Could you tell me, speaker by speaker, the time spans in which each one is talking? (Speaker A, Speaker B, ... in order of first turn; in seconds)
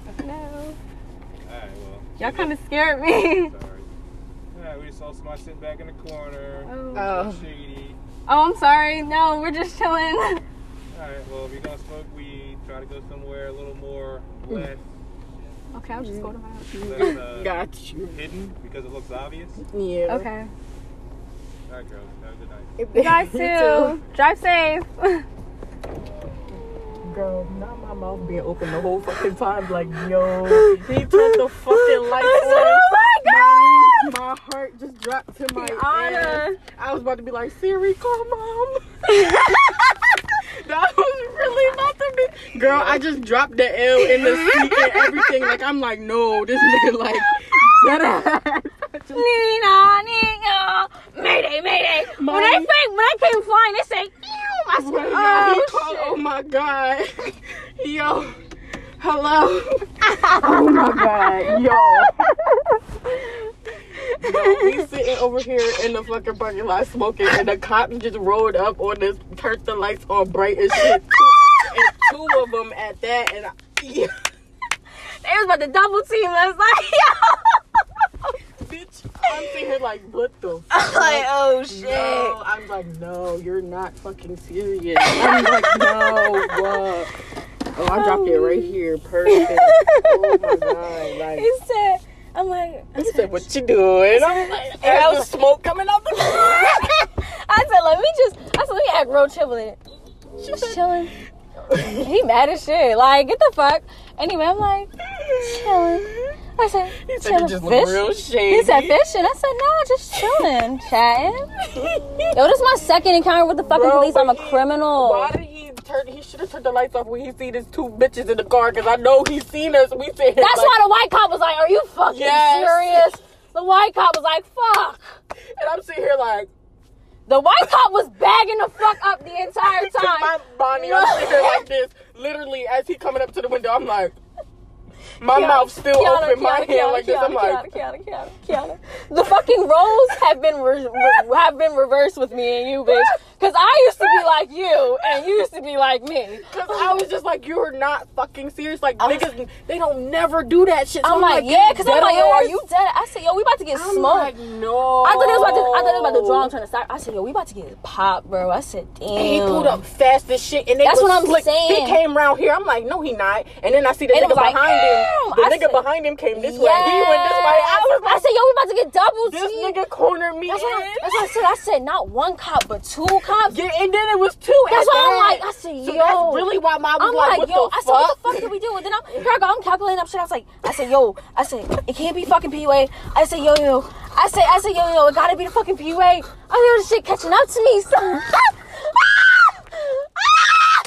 Speaker A: 0.2-0.8, 2.2-3.5, 6.7-7.2, 8.3-10.4, 15.7-16.3, 20.1-20.5, 22.9-25.3, 30.5-34.1, 35.5-36.6, 39.1-39.9, 41.4-41.9, 42.7-43.0, 44.0-45.5, 46.6-47.0, 47.6-48.1, 49.1-56.2, 60.3-63.3, 64.0-64.8, 70.8-72.1, 75.1-77.6, 80.7-82.4, 85.0-86.9, 87.8-88.8, 89.3-90.7, 91.3-93.5, 94.1-95.3, 96.2-99.8, 100.4-101.2, 101.8-111.5, 112.3-115.3, 120.4-125.2, 127.3-131.7, 135.3-147.0, 151.0-154.3, 155.0-159.8, 160.8-162.0, 164.1-169.8, 170.5-173.6, 174.7-188.7
Speaker B: 1.4-2.5, 3.2-3.9, 4.5-8.0, 10.9-15.5, 16.7-19.6, 21.7-22.7
Speaker C: 6.9-7.5, 15.9-18.5, 19.6-20.3, 22.8-24.0, 27.0-49.3, 52.1-52.7, 54.8-58.4, 59.0-62.3, 64.2-74.2, 78.6-87.1, 87.8-91.5, 93.0-97.1, 100.4-100.9, 101.7-102.1, 105.2-106.4, 107.0-109.0, 110.2-110.5, 111.6-112.3, 113.6-120.8, 122.1-123.2, 125.4-126.5, 129.6-134.2, 135.2-137.8, 142.9-143.2, 144.0-144.3, 146.5-152.6, 153.7-156.5, 159.1-168.3, 169.2-171.5, 173.4-178.5